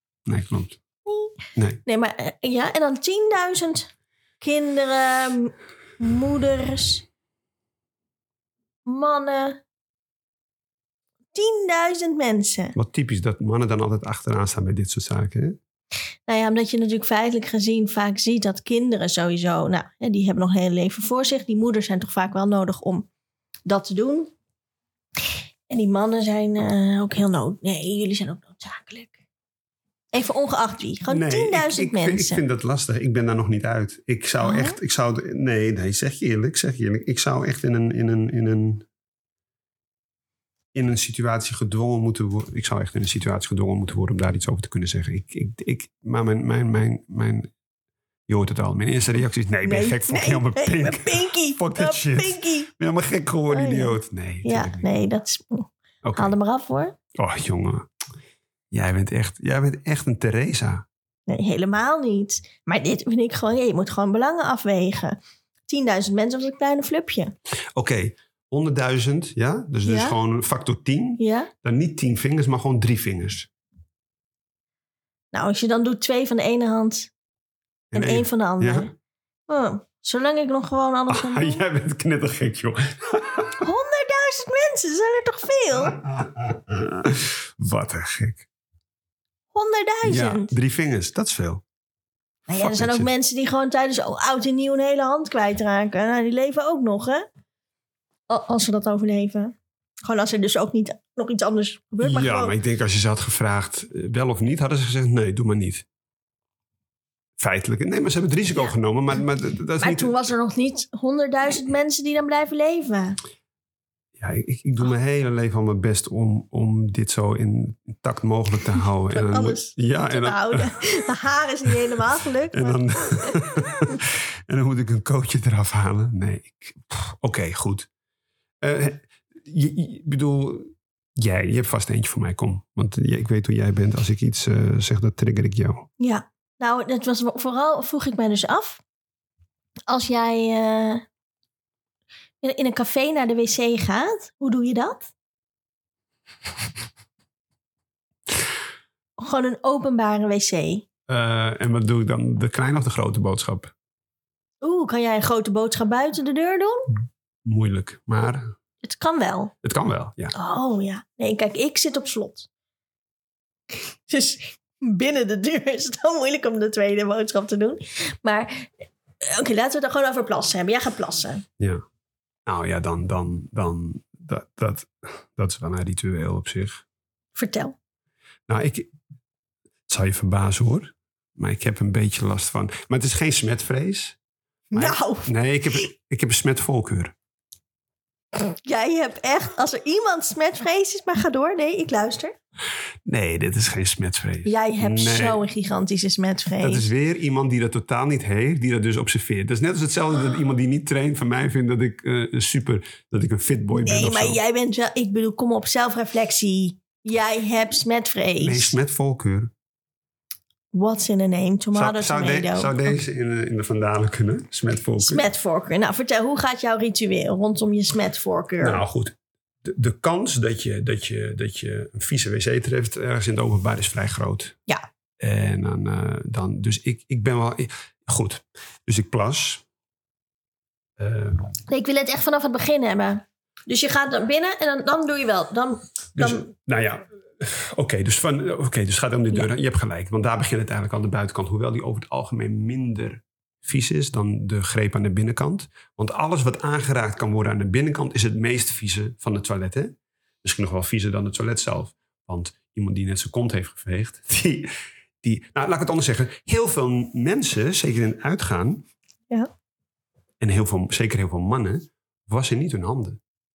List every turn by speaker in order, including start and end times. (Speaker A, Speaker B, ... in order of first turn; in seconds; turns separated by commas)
Speaker A: 0.2-0.8, Speaker B: 1.1-7.0, Speaker B: 8.8-9.6, Speaker B: 11.3-12.8, Speaker A: 12.7-15.6, Speaker B: 16.3-23.1, Speaker B: 23.6-24.3, Speaker B: 25.7-29.1, Speaker B: 30.1-32.4, Speaker A: 31.1-38.9, Speaker B: 34.4-34.8, Speaker A: 40.7-47.5, Speaker A: 48.3-54.9, Speaker B: 49.6-52.7, Speaker B: 53.5-57.0, Speaker A: 56.0-56.3, Speaker A: 57.1-57.9, Speaker A: 58.7-60.8, Speaker B: 61.3-67.3, Speaker A: 67.7-73.5, Speaker B: 69.8-70.2, Speaker B: 71.2-71.5, Speaker B: 75.3-77.1, Speaker A: 77.9-78.9, Speaker B: 77.9-78.9, Speaker B: 79.5-81.6, Speaker A: 81.1-83.6, Speaker B: 83.6-86.0, Speaker A: 85.8-88.5, Speaker B: 89.5-90.5, Speaker A: 90.0-91.6, Speaker B: 92.5-97.3, Speaker A: 92.5-93.1, Speaker B: 98.3-102.5, Speaker A: 102.0-105.8, Speaker A: 107.4-110.2, Speaker B: 109.8-113.2, Speaker A: 114.2-120.8, Speaker B: 119.1-123.3, Speaker A: 122.5-127.9, Speaker A: 128.6-135.9, Speaker B: 136.0-138.8, Speaker B: 139.9-141.0, Speaker B: 142.4-145.1, Speaker B: 149.2-150.8, Speaker A: 151.1-153.7, Speaker B: 154.6-156.9, Speaker A: 157.4-158.5, Speaker B: 158.8-159.5, Speaker A: 159.6-160.3, Speaker B: 160.3-162.5, Speaker B: 164.1-171.4, Speaker A: 172.4-176.8, Speaker B: 177.3-177.8, Speaker A: 178.5-178.9, Speaker A: 179.9-184.2, Speaker B: 184.7-185.3, Speaker A: 184.7-187.1, Speaker B: 188.3-192.3, Speaker A: 193.1-195.4, Speaker B: 194.4-196.9, Speaker A: 196.6-204.4, Speaker B: 203.7-208.7, Speaker A: 208.4-209.5, Speaker B: 210.7-212.9, Speaker A: 211.7-215.3, Speaker B: 215.0-218.8, Speaker A: 218.6-224.6, Speaker A: 225.2-229.6, Speaker A: 231.0-231.5, Speaker B: 231.7-236.4, Speaker A: 236.2-254.7, Speaker A: 255.2-258.9, Speaker A: 260.4-263.2